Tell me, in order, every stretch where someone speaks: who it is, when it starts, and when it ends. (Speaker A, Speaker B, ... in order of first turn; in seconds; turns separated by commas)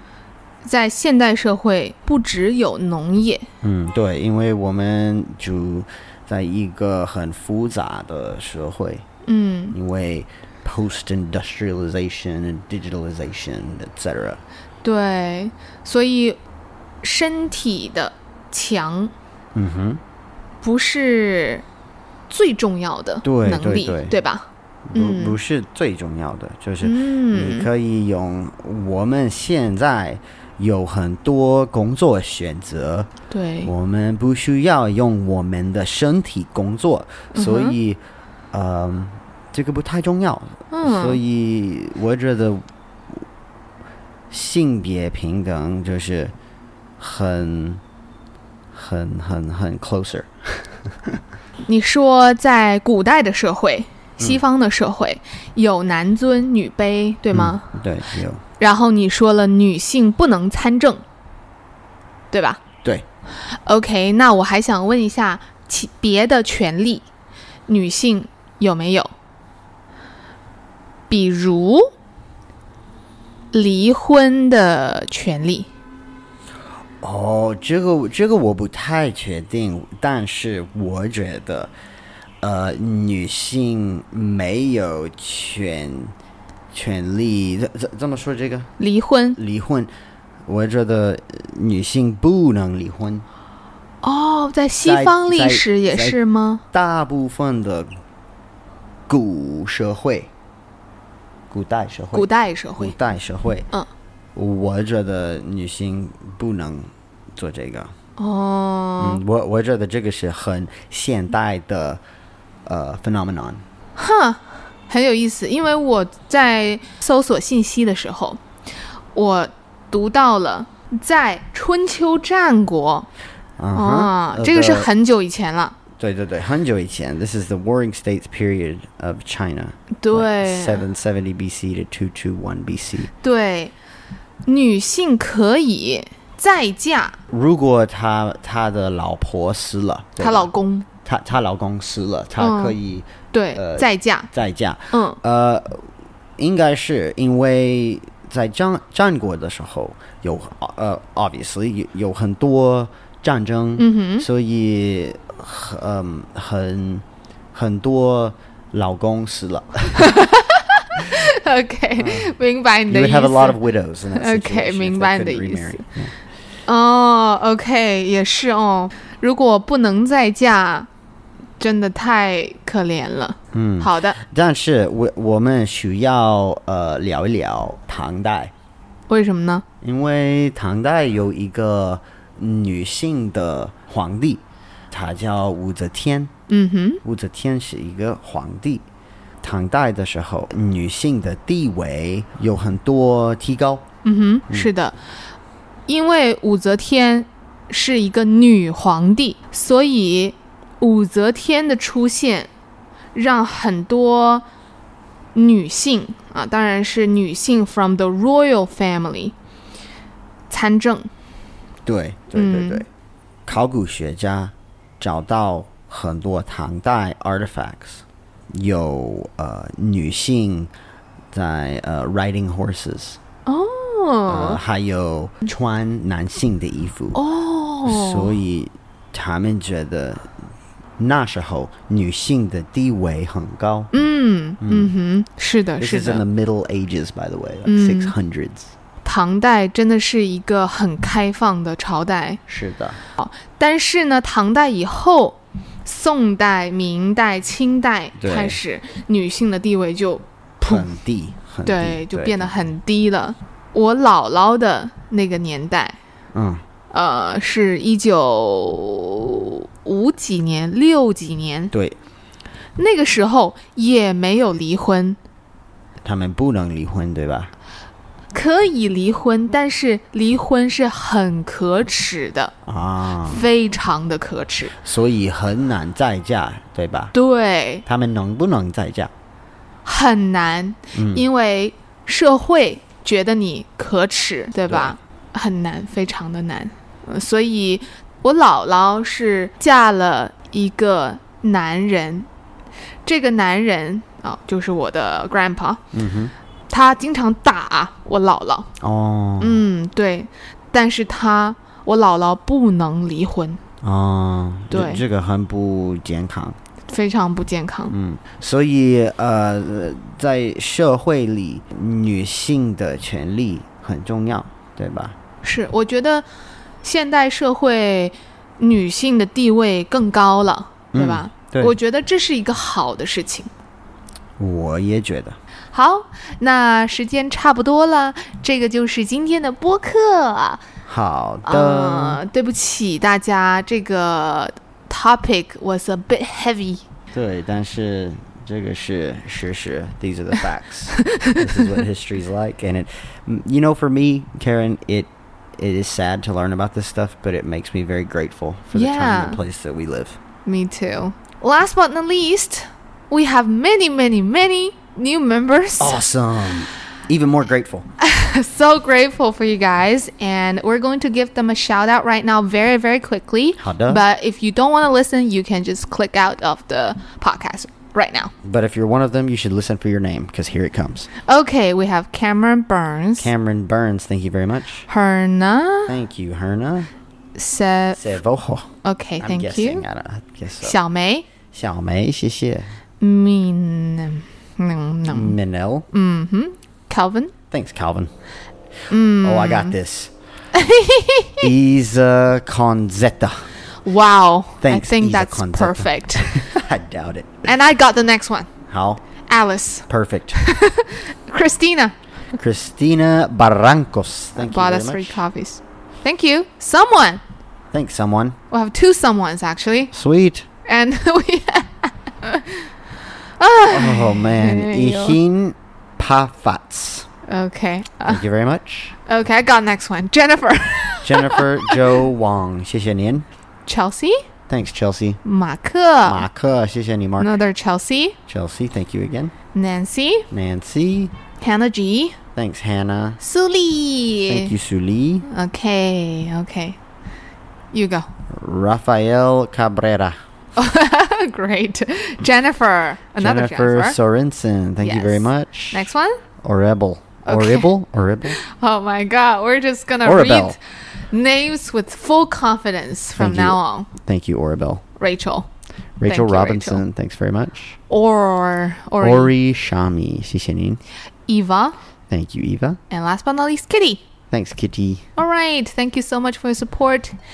Speaker A: 0.6-3.5, Speaker B: 3.6-9.1, Speaker A: 9.2-9.8, Speaker B: 9.7-14.4, Speaker A: 14.8-16.4, Speaker A: 17.0-19.1, Speaker B: 19.6-20.0, Speaker A: 20.6-21.6, Speaker A: 22.3-25.4, Speaker B: 23.2-24.1, Speaker B: 24.9-33.1, Speaker A: 26.8-27.7, Speaker A: 33.3-33.7, Speaker B: 33.6-38.0, Speaker A: 37.3-37.8, Speaker B: 38.5-42.6, Speaker A: 40.7-41.2, Speaker B: 44.3-46.3, Speaker B: 47.0-47.8, Speaker B: 48.7-51.2, Speaker A: 51.7-57.7, Speaker B: 57.3-58.4, Speaker A: 58.6-61.0, Speaker A: 62.3-62.6, Speaker A: 63.5-67.1, Speaker A: 67.7-69.1, Speaker A: 71.1-71.9, Speaker A: 73.5-75.7, Speaker B: 77.0-81.7, Speaker B: 82.4-86.1, Speaker B: 86.7-88.7, Speaker A: 88.8-89.4, Speaker B: 89.4-89.9, Speaker B: 90.5-93.3, Speaker A: 94.0-96.6, Speaker B: 94.8-96.2, Speaker B: 96.7-98.0, Speaker B: 99.1-100.3, Speaker B: 101.5-103.7, Speaker A: 102.1-103.0, Speaker B: 104.3-107.9, Speaker A: 108.2-109.2, Speaker B: 109.0-112.0, Speaker B: 112.7-113.6, Speaker A: 114.0-118.4, Speaker A: 119.2-123.1, Speaker B: 123.6-124.9, Speaker A: 123.8-125.8, Speaker B: 126.0-133.1, Speaker A: 130.0-130.8, Speaker A: 133.2-133.7, Speaker A: 134.5-137.2, Speaker B: 137.3-140.5, Speaker A: 140.2-140.9, Speaker B: 141.1-160.2, Speaker A: 142.4-142.8, Speaker A: 143.3-144.3, Speaker A: 144.9-145.2, Speaker A: 153.8-154.3, Speaker A: 160.0-163.6, Speaker B: 162.0-162.3, Speaker B: 162.9-166.1, Speaker A: 164.1-165.8, Speaker A: 166.7-170.9, Speaker A: 171.6-174.2, Speaker B: 173.5-178.5, Speaker A: 179.1-179.6, Speaker B: 179.8-186.3, Speaker A: 186.5-187.0, Speaker B: 187.0-188.9, Speaker B: 189.4-193.9, Speaker A: 194.0-195.0, Speaker A: 195.9-202.5, Speaker A: 203.1-204.4, Speaker A: 205.3-209.3, Speaker A: 210.5-211.1, Speaker B: 211.8-212.9, Speaker A: 212.3-212.9, Speaker B: 213.5-220.7, Speaker B: 221.3-223.2, Speaker A: 223.5-224.6, Speaker B: 224.3-227.2, Speaker A: 227.1-228.4, Speaker B: 227.8-230.3, Speaker B: 231.0-233.9, Speaker A: 233.9-236.2, Speaker B: 234.6-234.9, Speaker B: 235.8-238.7, Speaker A: 237.7-238.2, Speaker A: 239.0-242.4, Speaker B: 242.5-243.0, Speaker A: 243.2-250.9, Speaker B: 248.2-248.6, Speaker B: 250.6-252.5, Speaker A: 251.7-256.0, Speaker B: 256.3-256.6, Speaker A: 256.9-261.7, Speaker B: 261.7-262.0, Speaker A: 262.8-265.2, Speaker B: 266.0-267.5, Speaker A: 268.3-272.5, Speaker B: 272.6-273.5, Speaker A: 273.2-274.8, Speaker B: 274.7-277.1, Speaker A: 277.1-277.9, Speaker B: 277.9-279.1, Speaker A: 279.9-292.3, Speaker B: 280.9-281.3, Speaker B: 284.7-284.9, Speaker A: 293.1-295.8, Speaker B: 295.9-296.3, Speaker A: 296.7-298.7, Speaker B: 298.8-299.6, Speaker A: 299.4-303.6, Speaker B: 303.8-306.6, Speaker A: 304.7-305.0, Speaker A: 306.9-307.9, Speaker B: 307.9-315.2, Speaker A: 315.4-316.3, Speaker A: 316.8-323.5, Speaker B: 320.9-321.8, Speaker B: 324.4-325.4, Speaker A: 325.7-330.6, Speaker B: 330.9-332.2, Speaker A: 331.5-336.9, Speaker B: 337.1-350.2, Speaker A: 341.1-341.4, Speaker A: 348.7-349.4, Speaker A: 350.5-356.0, Speaker B: 355.8-357.9, Speaker A: 358.0-368.3, Speaker B: 363.6-364.1, Speaker B: 368.4-371.1, Speaker A: 371.2-373.3, Speaker B: 373.2-374.9, Speaker A: 374.9-375.9, Speaker B: 375.9-376.9, Speaker A: 377.4-378.0, Speaker B: 378.0-380.8, Speaker A: 378.8-379.9, Speaker A: 380.6-381.3, Speaker B: 381.5-382.7, Speaker A: 383.0-385.4, Speaker B: 385.1-385.9, Speaker A: 385.9-387.3, Speaker B: 387.5-388.1, Speaker A: 388.9-389.8, Speaker B: 389.1-390.1, Speaker A: 390.5-391.5, Speaker B: 391.4-393.5, Speaker A: 393.9-396.3, Speaker B: 394.6-397.5, Speaker A: 397.5-398.5, Speaker B: 398.7-399.0, Speaker A: 399.3-401.9, Speaker B: 399.9-400.4, Speaker B: 402.4-405.2, Speaker A: 404.4-407.2, Speaker B: 407.7-408.4, Speaker A: 408.5-409.9, Speaker B: 409.9-410.5, Speaker A: 410.7-412.7, Speaker A: 413.4-415.2, Speaker B: 413.7-417.1, Speaker A: 417.3-418.2, Speaker B: 418.1-418.9, Speaker A: 419.1-422.0, Speaker B: 421.0-423.3, Speaker A: 423.7-424.2, Speaker B: 424.5-425.2, Speaker A: 425.2-426.2, Speaker B: 426.1-427.4, Speaker A: 427.2-428.2, Speaker B: 428.3-429.3, Speaker A: 429.5-430.3, Speaker B: 430.3-431.1, Speaker A: 431.4-432.2, Speaker B: 432.4-433.2, Speaker A: 433.2-434.5, Speaker B: 434.3-435.3, Speaker A: 435.3-436.8, Speaker A: 437.7-438.1, Speaker B: 438.3-440.2, Speaker A: 440.6-444.0, Speaker B: 443.2-445.9, Speaker A: 444.8-446.2, Speaker B: 446.4-448.4, Speaker A: 447.2-447.7, Speaker A: 448.3-450.6, Speaker B: 450.0-450.6, Speaker A: 451.1-453.9, Speaker B: 453.2-454.8, Speaker A: 455.0-455.5, Speaker B: 456.0-457.8, Speaker A: 456.1-456.8, Speaker A: 457.9-459.3, Speaker B: 459.0-460.8, Speaker A: 461.3-461.8, Speaker B: 462.1-462.8, Speaker A: 462.9-464.0, Speaker B: 464.3-465.1, Speaker A: 465.2-467.1